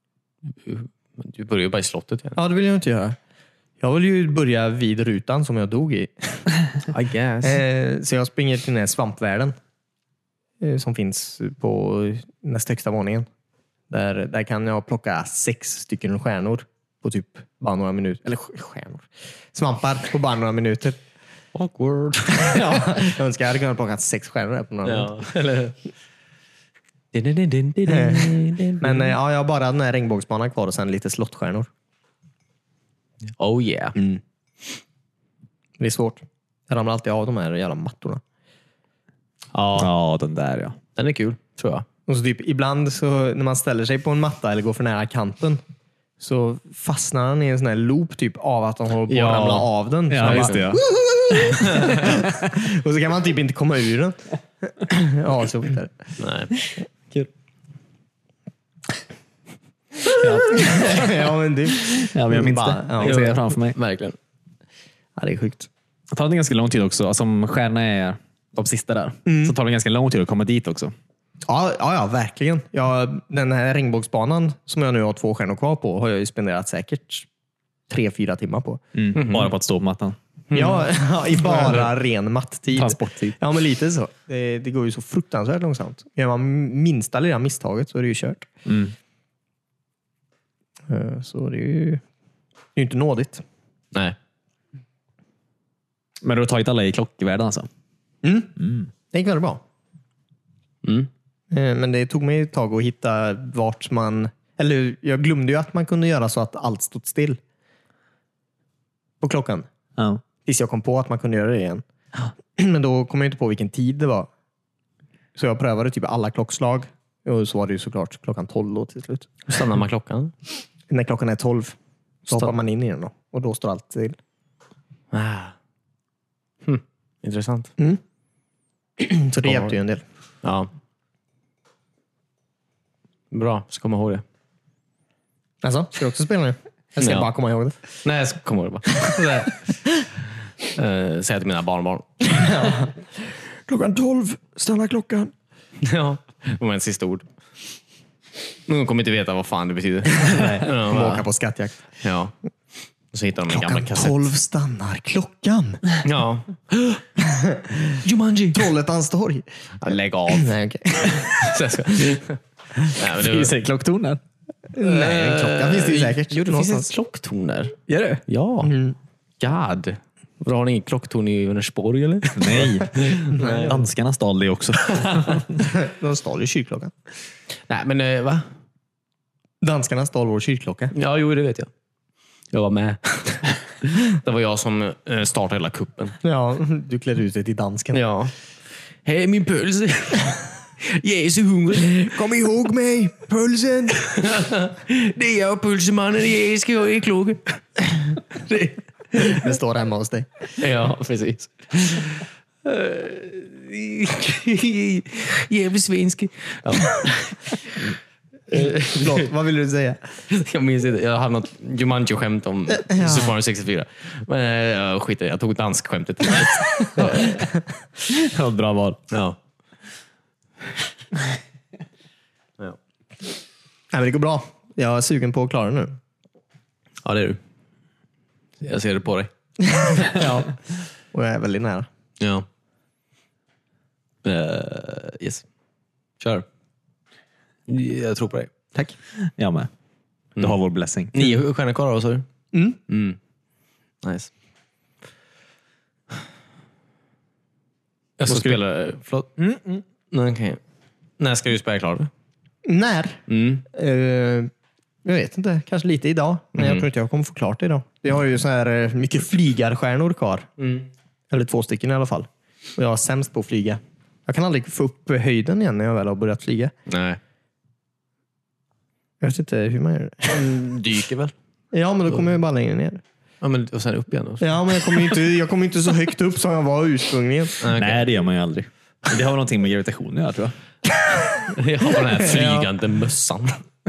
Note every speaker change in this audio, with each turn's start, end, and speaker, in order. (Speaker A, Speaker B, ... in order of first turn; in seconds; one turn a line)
Speaker A: 0.6-2.4
Speaker B: 2.4-3.2
Speaker B: 3.8-6.5
Speaker A: 6.9-7.6
Speaker B: 7.4-9.5
Speaker B: 10.6-13.3
Speaker B: 13.9-21.0
Speaker A: 21.5-23.0
Speaker B: 22.3-25.2
Speaker A: 24.8-25.8
Speaker A: 27.1-29.1
Speaker B: 27.9-31.7
Speaker A: 33.4-34.0
Speaker B: 34.0-34.2
Speaker B: 35.8-38.2
Speaker A: 39.5-39.9
Speaker C: 39.8-40.8
Speaker A: 41.0-41.9
Speaker B: 42.1-45.6
Speaker B: 46.2-56.0
Speaker A: 49.1-50.6
Speaker C: 50.1-52.5
Speaker A: 51.6-52.1
Speaker A: 56.2-56.6
Speaker C: 60.1-61.1
Speaker B: 60.2-63.1
Speaker C: 61.8-63.8
Speaker A: 63.0-64.2
Speaker B: 65.2-65.7
Speaker C: 66.1-70.9
Speaker B: 69.2-69.5
Speaker B: 71.5-77.3
Speaker B: 77.9-78.8
Speaker C: 78.9-80.2
Speaker A: 79.1-79.5
Speaker A: 80.5-81.8
Speaker B: 80.5-88.5
Speaker C: 82.7-83.3
Speaker C: 88.7-88.9
Speaker B: 90.9-92.0
Speaker B: 92.8-93.4
Speaker C: 96.2-97.7
Speaker B: 98.2-98.6
Speaker C: 98.6-98.9
Speaker B: 99.1-99.6
Speaker A: 100.8-101.1
Speaker B: 101.5-107.4
Speaker B: 109.2-109.7
Speaker C: 110.0-110.2
Speaker B: 110.4-111.8
Speaker B: 112.5-114.3
Speaker B: 115.3-119.5
Speaker A: 119.5-120.3
Speaker B: 120.9-121.8
Speaker A: 122.3-122.5
Speaker B: 122.3-124.2
Speaker A: 125.1-125.5
Speaker A: 126.6-127.7
Speaker B: 129.0-130.0
Speaker A: 129.4-129.7
Speaker A: 130.4-130.7
Speaker A: 133.3-134.2
Speaker B: 135.6-137.8
Speaker A: 137.0-137.3
Speaker A: 138.0-139.8
Speaker A: 140.6-142.7
Speaker B: 142.3-145.3
Speaker A: 145.8-147.2
Speaker A: 148.7-151.2
Speaker B: 150.3-151.8
Speaker A: 151.9-152.3
Speaker A: 153.1-154.3
Speaker B: 153.5-155.8
Speaker A: 156.0-157.0
Speaker B: 157.2-158.0
Speaker A: 158.0-158.7
Speaker B: 158.5-159.5
Speaker A: 159.8-163.5
Speaker B: 160.3-161.6
Speaker C: 163.0-164.2
Speaker B: 164.7-166.9
Speaker A: 164.8-168.7
Speaker C: 167.9-168.2
Speaker B: 168.6-168.9
Speaker A: 169.4-173.8
Speaker C: 172.3-175.5
Speaker B: 173.3-173.8
Speaker B: 175.5-176.9
Speaker A: 177.7-178.5
Speaker B: 179.6-180.9
Speaker A: 180.9-181.7
Speaker A: 182.5-186.2
Speaker B: 186.2-188.0
Speaker A: 187.9-188.3
Speaker A: 189.0-192.3
Speaker B: 192.1-194.1
Speaker A: 193.9-199.5
Speaker B: 199.2-200.3
Speaker A: 200.6-207.7
Speaker A: 208.5-209.3
Speaker B: 208.5-210.0
Speaker A: 210.3-217.4
Speaker B: 212.8-213.3
Speaker B: 216.8-217.6
Speaker C: 218.1-219.0
Speaker A: 219.1-219.4
Speaker B: 223.9-226.0
Speaker A: 227.0-227.4
Speaker A: 228.6-229.3
Speaker B: 229.6-230.6
Speaker B: 231.1-231.9
Speaker A: 232.2-232.4
Speaker A: 234.2-235.4
Speaker A: 236.2-236.4
Speaker A: 237.7-238.5
Speaker C: 239.2-239.7
Speaker C: 240.4-241.3
Speaker A: 241.1-242.3
Speaker B: 242.5-242.8
Speaker A: 242.9-243.2
Speaker A: 244.0-244.3
Speaker A: 248.2-249.3
Speaker C: 248.3-248.6
Speaker C: 249.4-249.8
Speaker A: 250.1-250.6
Speaker A: 251.2-252.1
Speaker B: 252.6-254.5
Speaker A: 253.3-253.6
Speaker B: 255.0-260.5
Speaker A: 256.6-256.8
Speaker A: 260.6-260.9
Speaker B: 261.3-266.7
Speaker A: 266.9-267.2
Speaker B: 269.2-270.6
Speaker A: 270.3-271.3
Speaker B: 271.7-273.0
Speaker A: 273.4-275.2
Speaker B: 274.4-277.6
Speaker A: 277.6-278.1
Speaker C: 277.7-280.5
Speaker A: 281.5-283.6
Speaker B: 282.2-282.7